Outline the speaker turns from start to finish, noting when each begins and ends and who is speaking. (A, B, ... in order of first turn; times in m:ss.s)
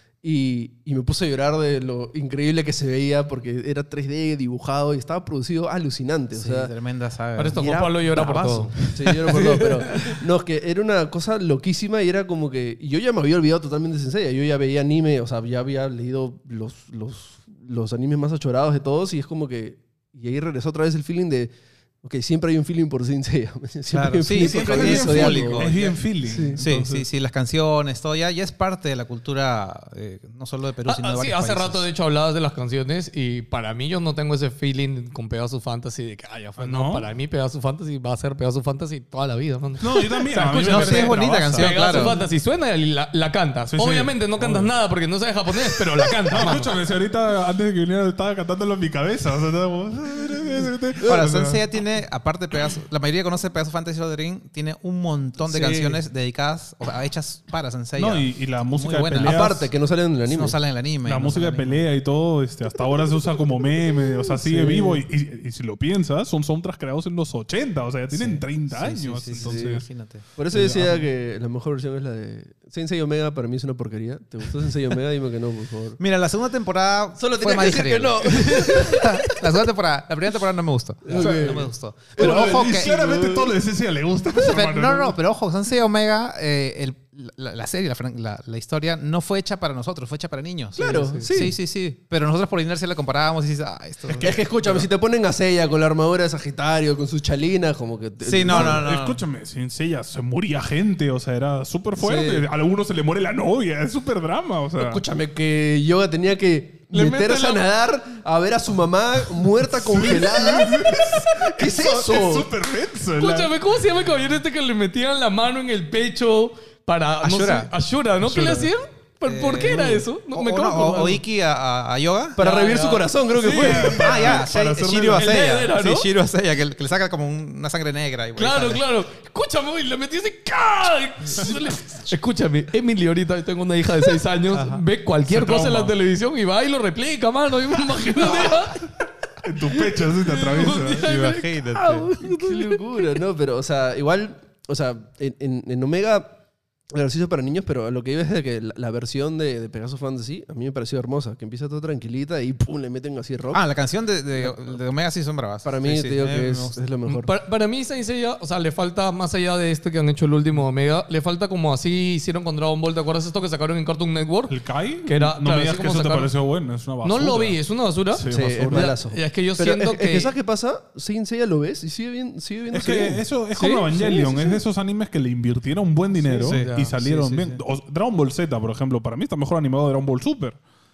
0:00.2-0:06.7 A
0:06.3-0:09.6 B
0:07.4-0:09.6 C
0:08.9-0:25.7 A
0:23.9-0:26.0 B
0:24.3-0:27.1 D
0:26.2-0:26.6 A
0:26.6-0:31.8 B
0:30.8-0:46.8 C
0:36.6-0:37.1 D
0:39.8-0:42.2 D
0:40.6-0:42.2 B
0:43.7-0:44.7 D
0:46.3-0:51.6 D
0:51.0-0:59.5 B
0:55.5-0:56.0 D
0:58.0-0:59.7 D
0:59.2-1:00.6 A
1:00.3-1:01.8 B
1:01.0-1:09.8 D
1:04.3-1:05.1 A
1:08.1-1:10.2 B
1:09.4-1:09.8 A
1:10.4-1:16.0 A
1:10.5-1:11.1 D
1:16.0-1:23.0 B
1:17.2-1:19.5 A
1:21.0-1:23.6 A
1:21.1-1:25.1 D
1:24.4-1:34.9 B
1:30.8-1:31.6 A
1:30.8-1:31.4 C
1:34.2-1:38.9 A
1:38.2-1:39.2 B
1:38.5-1:45.0 D
1:42.0-1:42.5 A
1:44.8-1:52.5 A
1:46.9-1:47.6 C
1:49.6-1:53.5 D
1:53.2-2:01.2 C
1:57.2-1:57.7 B
1:58.2-1:58.7 D
1:59.2-2:02.4 B
2:02.4-2:04.4 A
2:02.4-2:04.0 C
2:03.4-2:05.3 D
2:04.0-2:08.8 B
2:05.1-2:06.1 C
2:08.4-2:18.8 C
2:14.5-2:14.8 B
2:15.3-2:15.9 D
2:19.4-2:21.1 D
2:19.7-2:23.2 C
2:21.0-2:22.1 B
2:21.8-2:26.4 A
2:26.9-2:33.6 A
2:33.5-2:36.8 B
2:34.4-2:34.8 A
2:35.6-2:37.3 A
2:37.1-2:46.3 C
2:44.5-2:47.6 D
2:47.0-2:50.3 C
2:48.1-2:48.9 D
2:48.3-2:54.6 A
2:52.7-3:00.6 D
2:56.4-2:57.6 B
2:56.5-2:57.4 C